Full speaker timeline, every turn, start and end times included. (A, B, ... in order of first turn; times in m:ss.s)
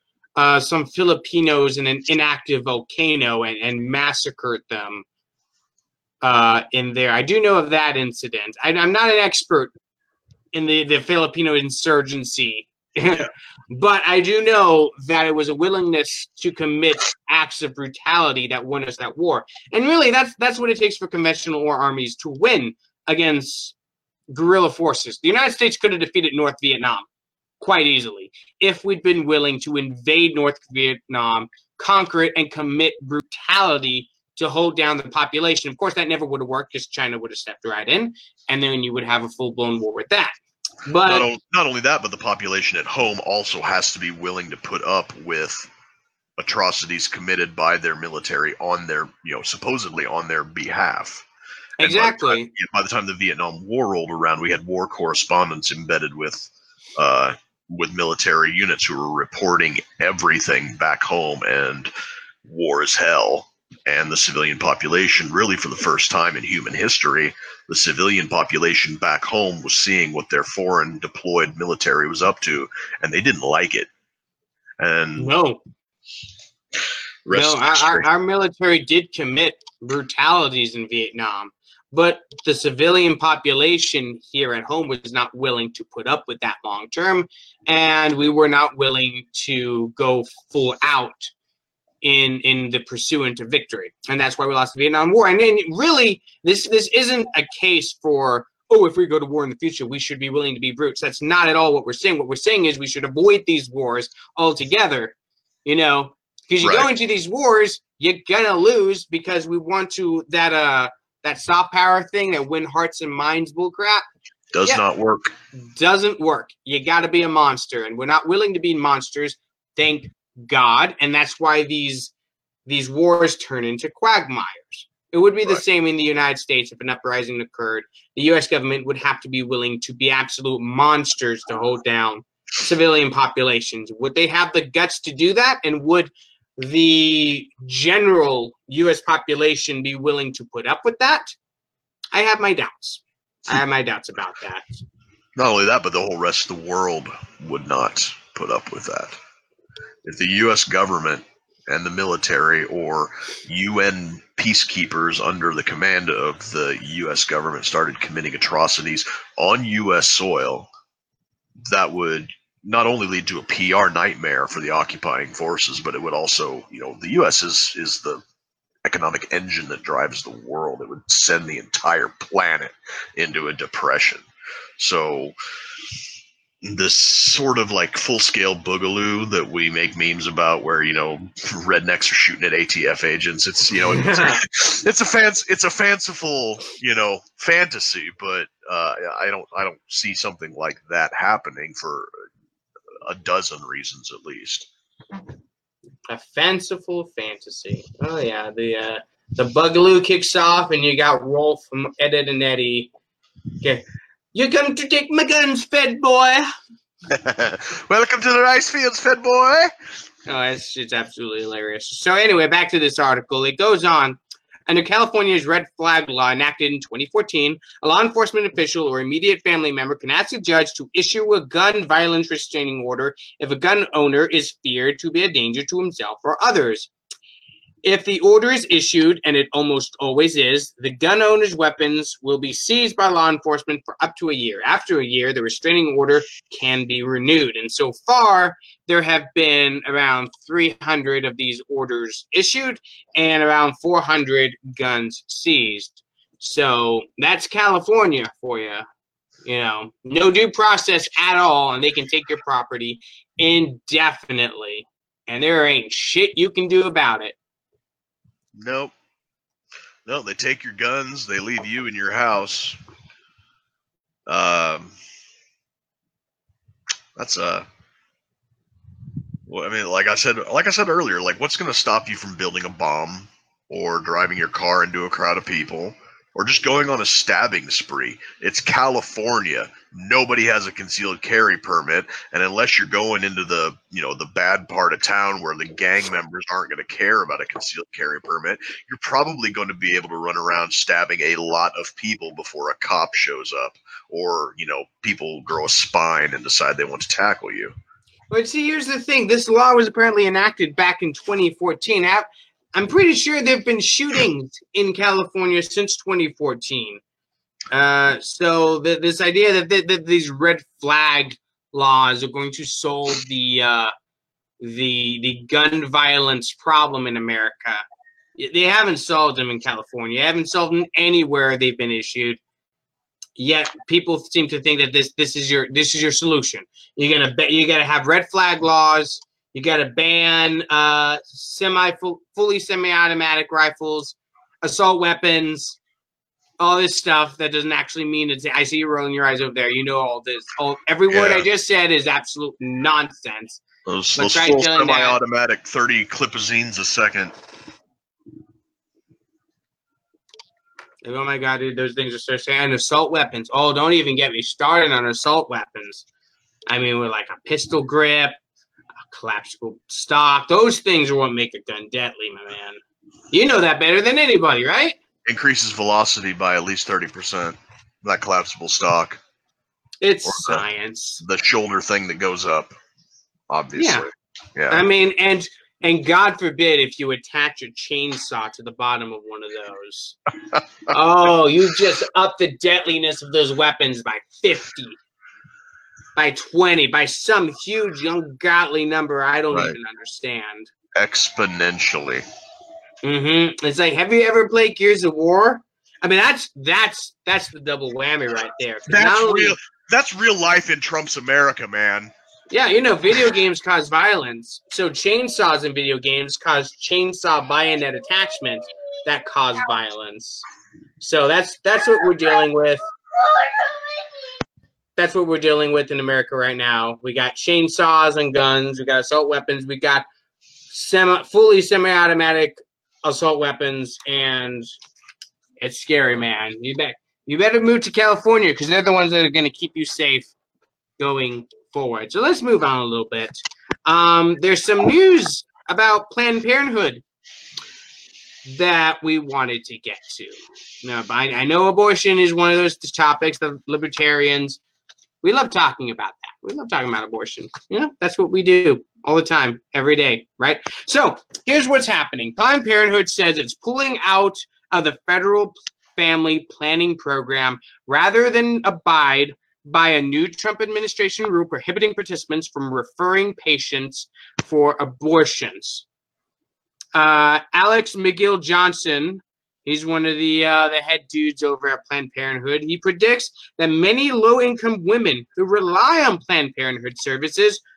0:00.4-0:05.0 A
0:06.2-0:09.7 A
0:10.5-0:23.8 A
0:24.3-0:27.1 A
0:27.6-0:40.3 A
0:40.8-0:41.3 A
0:41.1-0:45.7 B
0:46.4-0:51.2 B
0:51.8-0:52.5 A
0:51.8-1:01.9 B
1:02.4-1:13.9 B
1:14.8-1:15.3 B
1:15.2-1:15.6 A
1:17.3-1:18.1 B
1:17.3-1:31.3 A
1:32.0-1:54.0 A
1:46.6-1:46.9 B
1:54.5-1:55.3 B
1:55.6-2:02.1 A
2:02.7-2:21.4 A
2:22.1-2:24.7 A
2:25.4-2:29.2 B
2:30.0-2:40.7 B
2:41.7-2:48.2 B
2:48.8-2:54.2 B
2:54.8-2:55.4 B
2:56.6-3:12.2 B
3:03.9-3:04.4 A
3:13.0-3:14.7 B
3:16.1-3:22.9 A
3:24.3-3:26.5 A
3:27.1-3:29.7 B
3:30.3-3:46.9 A
3:47.8-4:08.9 A
4:09.4-4:17.4 A
4:18.6-4:18.9 B
4:20.1-4:22.8 B
4:24.3-4:24.9 B
4:27.2-4:27.6 B
4:29.5-4:57.7 B
4:58.3-5:07.0 A
5:07.7-5:13.9 A
5:14.6-5:17.8 A
5:18.4-5:22.4 A
5:23.4-5:35.8 A
5:36.6-5:43.6 A
5:41.1-5:41.5 B
5:43.9-5:47.3 B
5:44.2-5:45.2 A
5:51.0-5:56.0 A
5:56.7-5:58.4 A
5:59.1-6:02.8 A
6:03.3-6:05.0 A
6:05.3-6:09.2 B
6:10.0-6:11.2 A
6:10.2-6:10.6 B
6:11.2-6:12.7 B
6:13.5-6:14.8 B
6:13.8-6:14.1 A
6:14.7-6:20.2 A
6:20.9-6:25.0 A
6:26.2-6:30.7 A
6:29.5-6:29.8 B
6:31.0-6:32.2 B
6:33.0-6:39.6 A
6:38.9-6:42.1 B
6:42.5-6:50.5 A
6:51.0-6:52.8 A
6:55.0-7:00.0 A
7:00.7-7:04.7 A
7:05.6-7:10.3 A
7:11.0-7:17.0 A
7:18.4-7:24.6 A
7:25.2-7:45.8 A
7:47.0-7:57.6 A